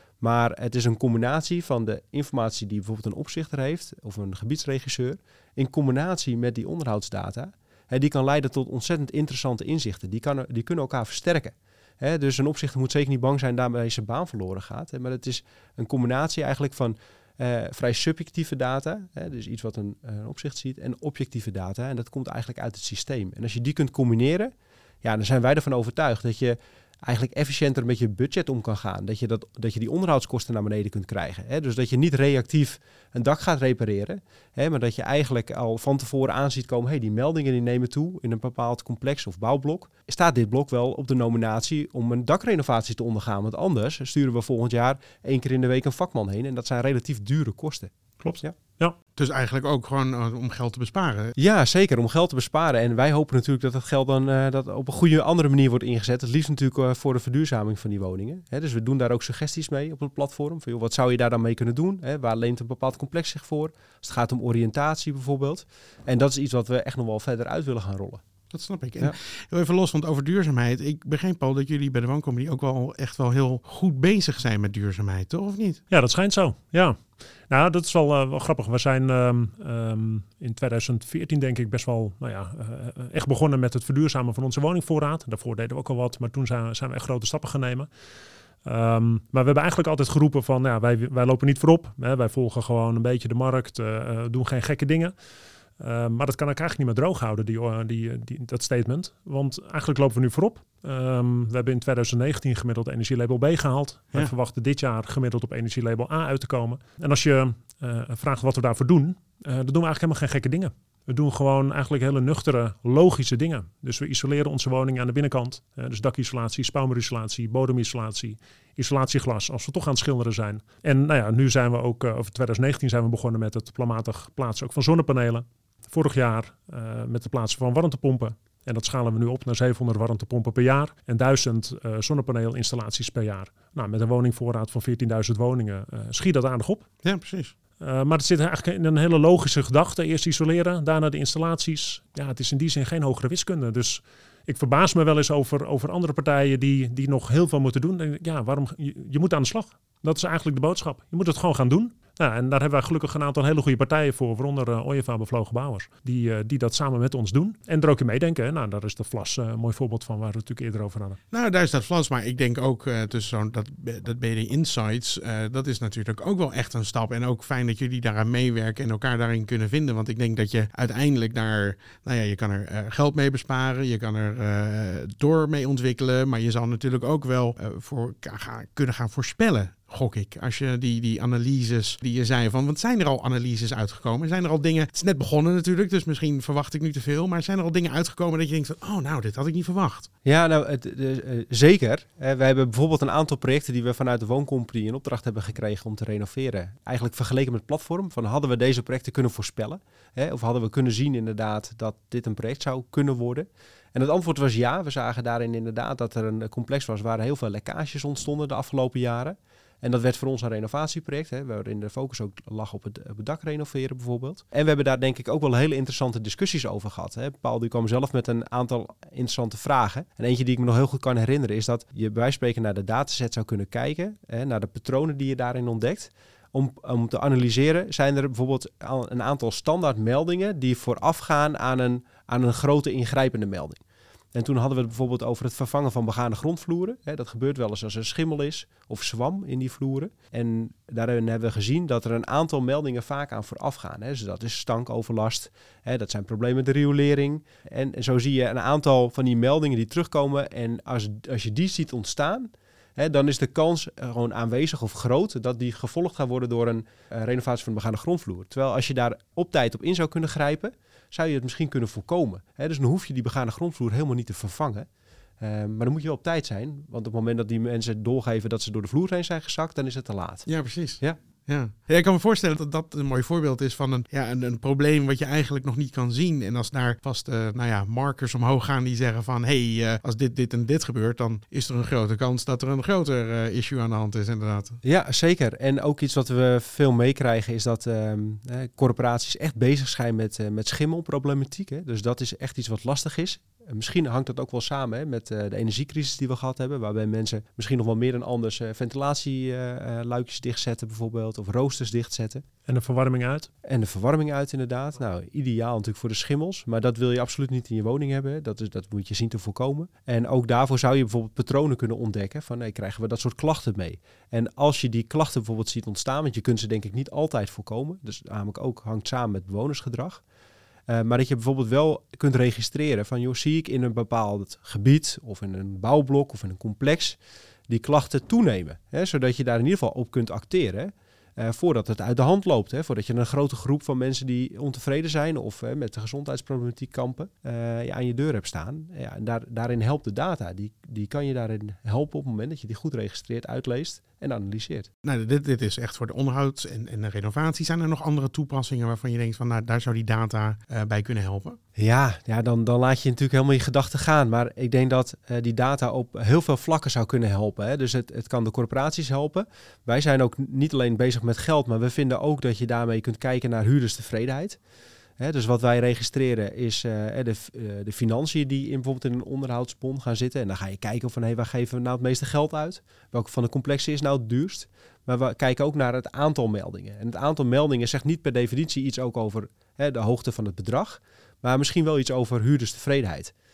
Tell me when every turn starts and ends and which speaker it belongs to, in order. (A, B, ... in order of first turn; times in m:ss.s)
0:00.2-0:48.5 A
0:48.2-0:49.0 B
0:49.2-0:51.3 C
0:51.4-1:08.2 A
1:08.5-1:15.8 C
1:15.9-1:27.9 B
1:28.6-1:35.1 B
1:35.8-2:16.9 B
2:17.0-2:17.6 C
2:17.8-2:41.2 B
2:41.3-3:10.1 C
3:10.2-3:53.8 A
3:54.3-4:24.9 A
4:25.4-4:30.5 A
4:30.5-4:44.8 C
4:44.8-5:02.4 A
5:02.7-5:03.5 B
5:03.6-5:20.2 A
5:20.9-5:27.2 A
5:27.7-5:44.9 A
5:45.0-5:51.6 C
5:51.8-6:04.6 A
6:05.2-6:23.3 A